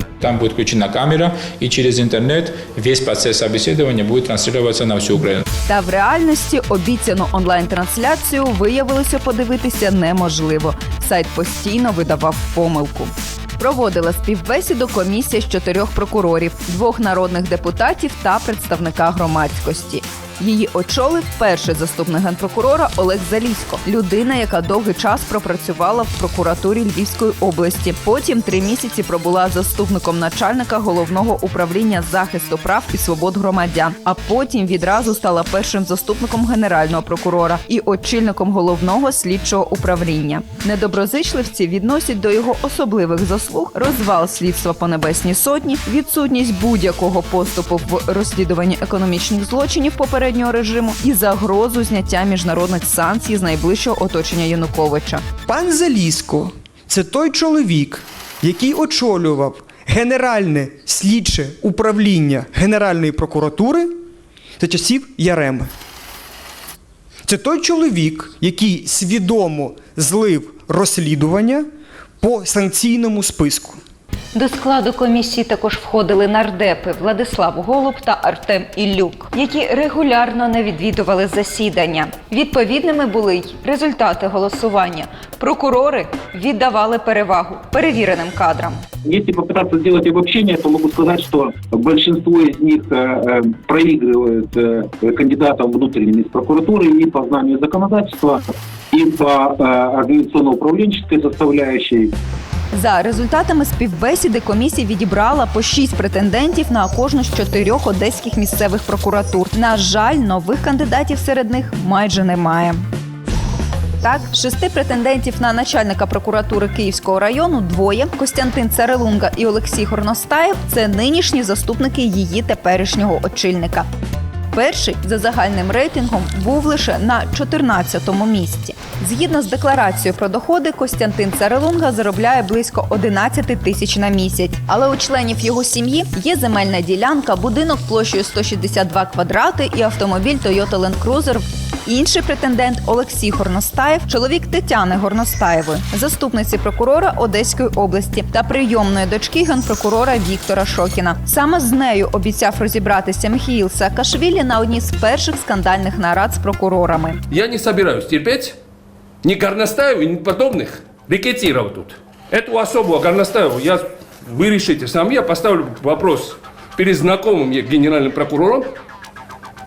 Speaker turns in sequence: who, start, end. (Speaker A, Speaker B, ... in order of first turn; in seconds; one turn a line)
Speaker A: 0.2-5.4
Speaker B: 5.7-55.2
Speaker C: 55.5-63.9
Speaker C: 64.6-65.7
Speaker C: 67.2-71.7
Speaker C: 72.2-73.8
Speaker B: 74.3-88.8
Speaker D: 89.0-98.4
Speaker D: 98.9-102.1
Speaker B: 102.7-112.8
Speaker B: 114.0-123.9
Speaker B: 124.5-157.2
Speaker E: 157.3-158.6
Speaker E: 159.2-168.7